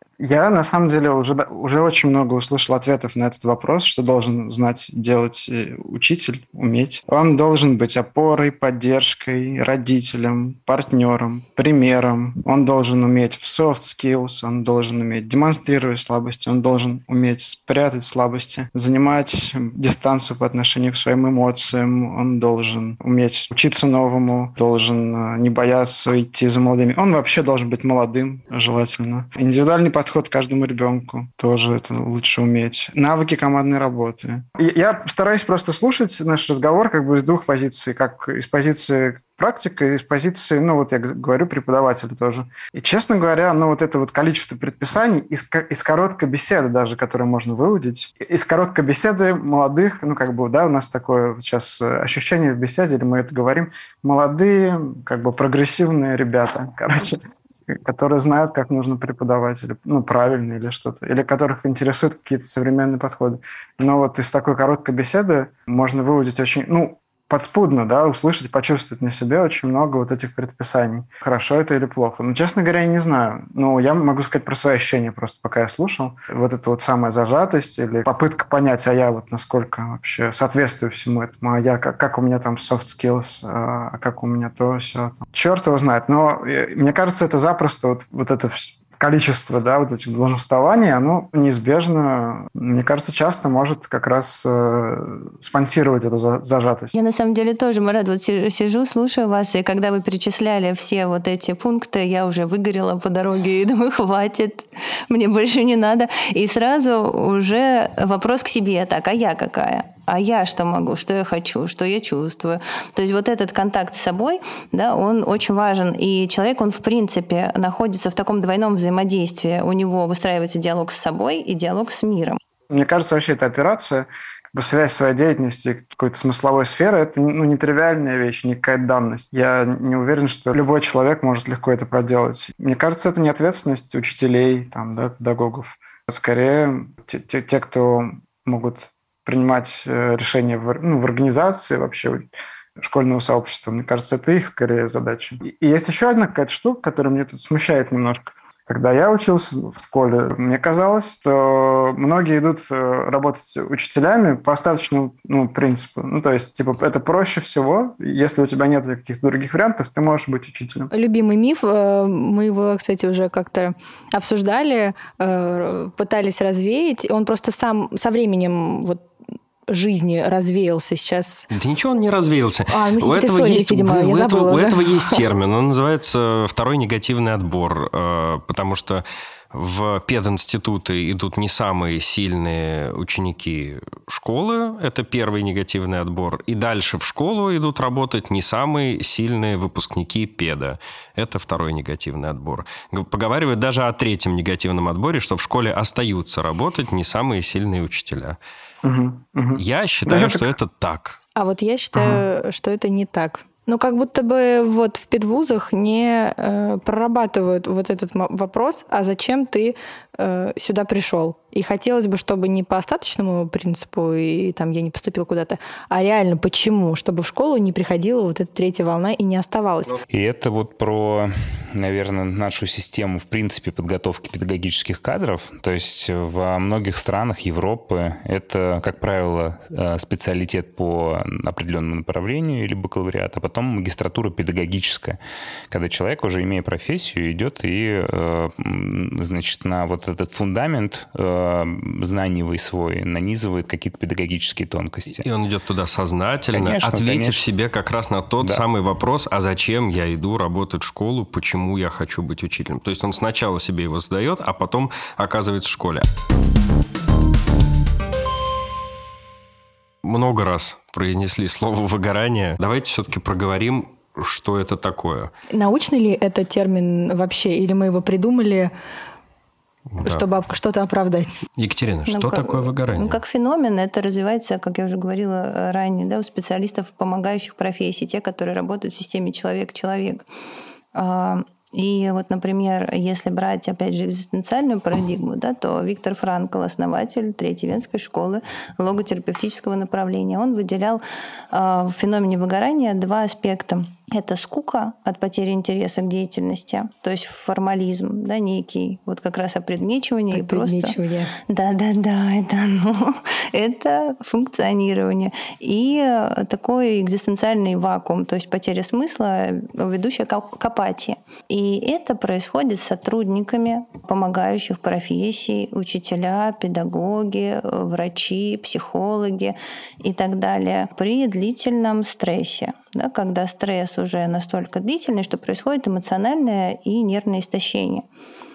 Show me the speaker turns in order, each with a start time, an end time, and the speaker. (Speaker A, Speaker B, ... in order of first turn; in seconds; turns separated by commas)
Speaker A: 0.2-97.0, Speaker B: 96.9-122.4, Speaker A: 122.7-160.9, Speaker C: 160.9-169.1, Speaker C: 169.7-171.5, Speaker D: 171.5-198.4, Speaker C: 172.7-175.2, Speaker A: 198.8-200.5, Speaker D: 199.5-201.2, Speaker C: 201.3-219.9, Speaker A: 201.9-202.2, Speaker E: 220.1-235.2, Speaker E: 235.7-245.2, Speaker D: 245.2-256.1, Speaker E: 246.5-247.4, Speaker D: 260.0-265.3, Speaker C: 265.5-268.7, Speaker D: 269.9-270.2, Speaker C: 270.0-271.4, Speaker D: 271.6-273.2, Speaker B: 272.1-280.2, Speaker B: 280.9-300.9, Speaker C: 300.3-301.3, Speaker B: 301.5-328.0